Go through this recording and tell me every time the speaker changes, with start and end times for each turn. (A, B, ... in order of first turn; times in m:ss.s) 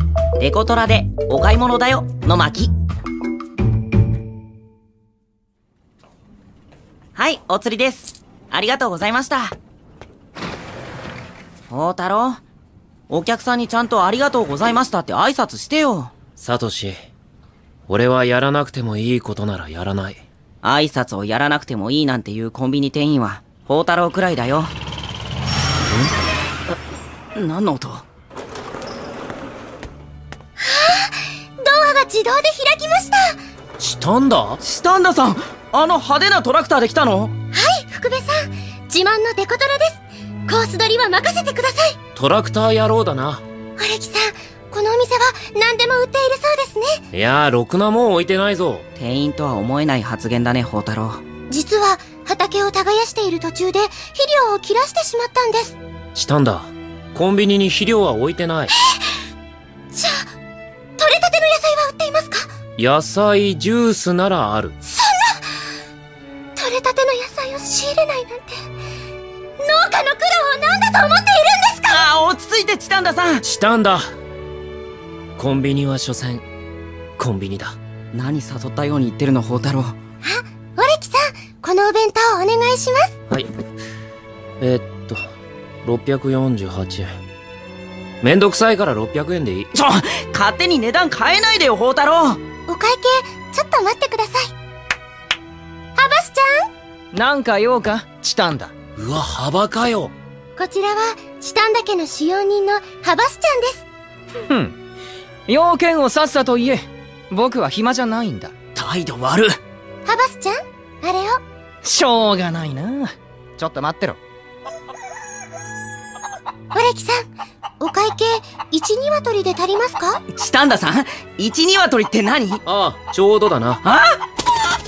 0:00.4-0:02.7 A
0:07.2-0:09.6 A
0:11.7-0:12.4 A
0:13.1-0:16.1 A
0:16.4-0:17.0 B
0:17.9-0:20.2 B
0:20.6-0:24.7 A
0:27.4-0:28.0 A
0:30.6-0:33.4 C
0:33.8-0:34.6 B
0:34.6-0:37.3 A
0:37.5-0:42.0 C
0:42.2-0:43.4 B
0:43.8-0:47.0 C
0:47.1-0:48.9 B
0:49.0-0:51.2 A
0:51.5-0:55.8 C
0:56.2-0:58.7 B
0:59.9-1:00.3 C
1:01.0-1:02.5 C
1:02.8-1:04.8 B
1:04.8-1:05.4 C
1:06.6-1:08.6 C
1:09.6-1:12.1 C
1:11.9-1:13.4 A
1:13.4-1:14.1 B
1:15.4-1:16.4 B
1:17.2-1:17.8 B
1:18.1-1:20.0 A
1:20.2-1:23.2 C
1:24.6-1:25.2 B
1:25.8-1:27.1 B
1:28.2-1:29.7 B
1:29.8-1:32.4 A
1:32.7-1:34.5 C
1:36.0-1:36.7 C
1:37.2-1:37.6 A
1:37.2-1:38.7 D
1:39.0-1:40.1 B
1:40.6-1:43.8 C
1:45.5-1:48.6 D
1:48.8-1:49.6 A
1:50.1-1:51.4 C
1:51.8-1:54.2 D
1:56.7-1:57.3 C
1:57.8-2:00.2 C
2:00.3-2:02.6 A
2:02.6-2:03.8 B
2:03.8-2:04.2 A